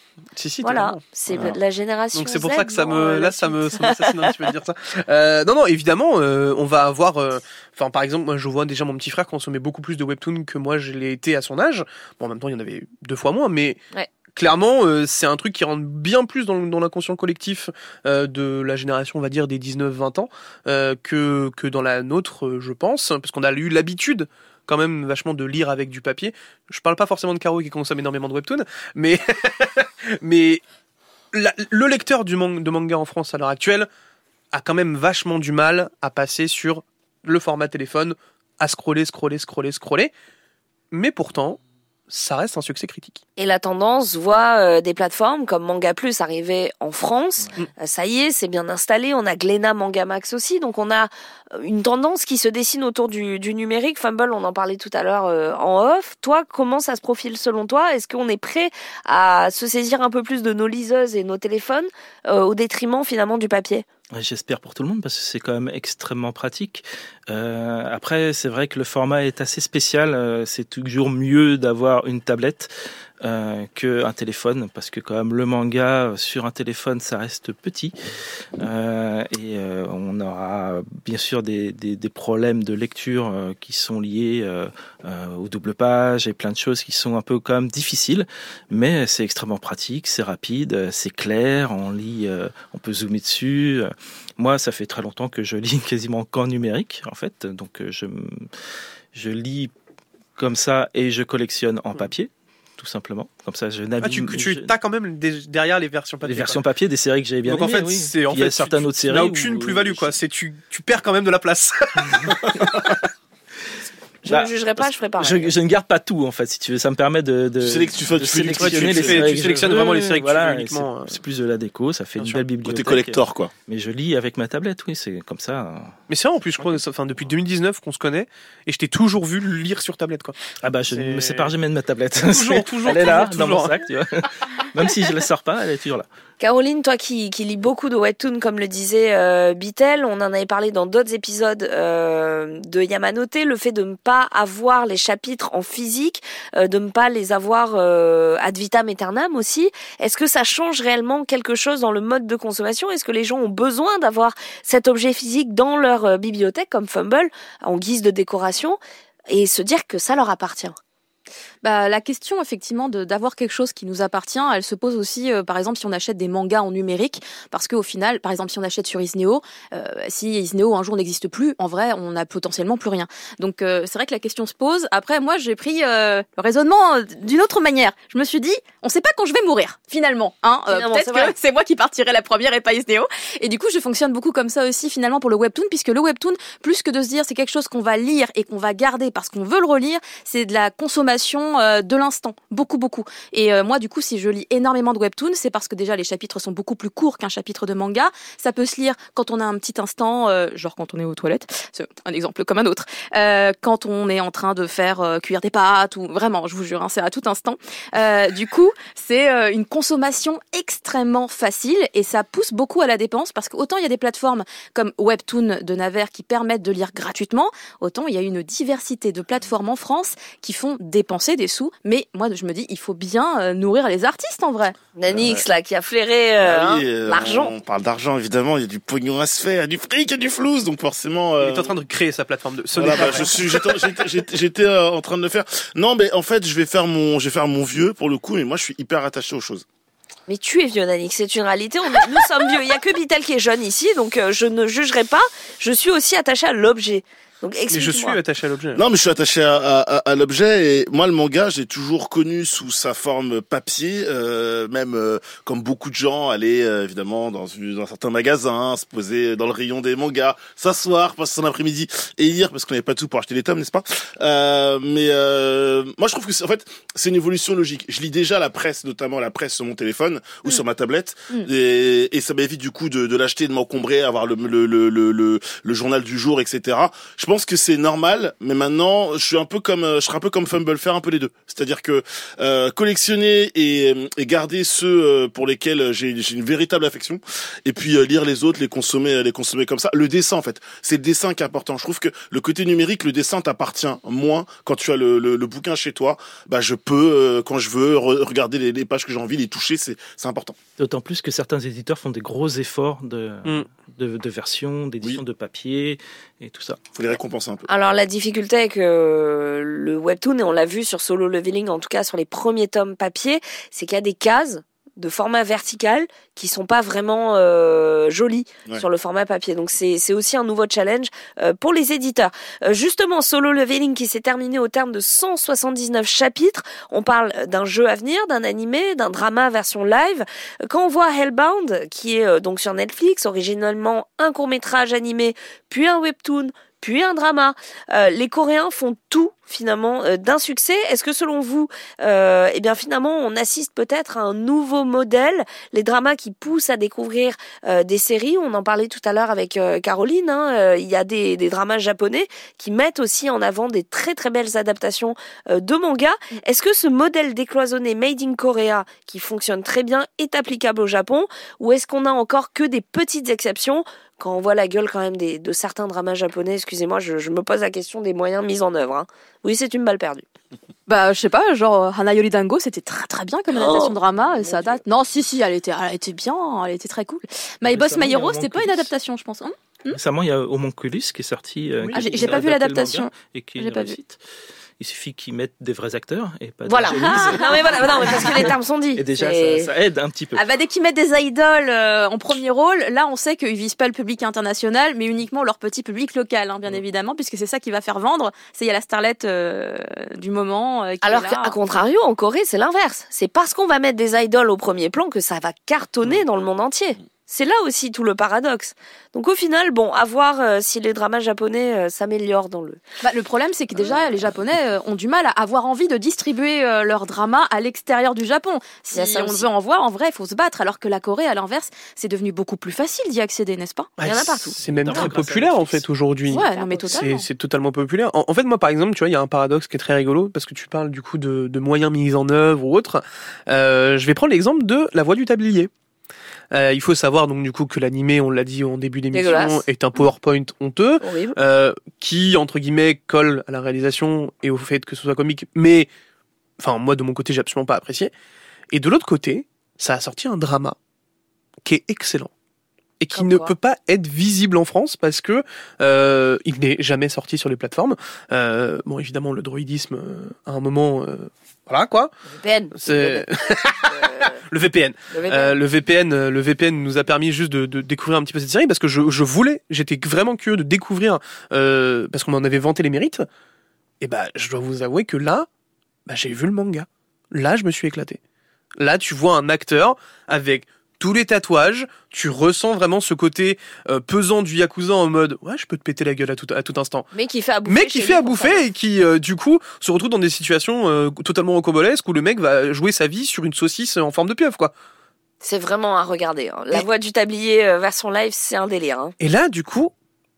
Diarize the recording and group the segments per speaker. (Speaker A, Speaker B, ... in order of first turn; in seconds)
Speaker A: 0.3-1.6, 2.1-30.6, 31.3-33.9, 34.5-40.1, 40.9-43.2, 104.0-106.6, 107.5-112.8, 118.5-121.2, 126.1-130.4, 130.9-131.5, 132.2-133.8, 231.4-233.3, 247.7-248.8, 381.8-382.4, 424.0-435.7, 436.5-445.9, 446.6-448.1, 448.7-450.8, 451.6-452.3, 453.0-462.1, 462.8-473.3, 474.0-475.5, 476.1-478.2, 478.8-487.1, 487.7-494.7, 499.2-499.9
Speaker B: 0.6-4.3, 43.4-63.9, 114.2-115.5, 136.4-158.8, 159.3-160.8, 180.7-181.3, 225.0-227.5, 240.3-248.2, 307.7-370.3, 373.5-374.8, 386.7-389.7, 401.0-412.8, 418.9-419.5, 424.0-425.2, 426.3-427.1, 439.1-439.6, 441.0-441.4, 453.1-453.5, 462.3-463.3, 463.9-464.4, 465.1-465.6, 487.1-488.7, 495.4-499.1
Speaker C: 64.1-77.9, 78.6-98.5, 99.1-99.7, 100.4-104.7, 106.2-110.1, 114.3-126.0, 130.6-136.1, 300.8-306.8, 377.6-378.9, 379.9-384.2, 384.8-390.4, 424.6-425.9
Speaker D: 117.6-119.5, 122.6-123.5, 225.1-225.4, 226.4-231.8, 232.7-239.7, 248.8-300.6, 306.9-307.7
Speaker E: 161.6-224.8, 370.9-380.0, 381.9-384.0, 386.9-387.6, 390.3-401.6, 413.0-423.9, 426.3-427.3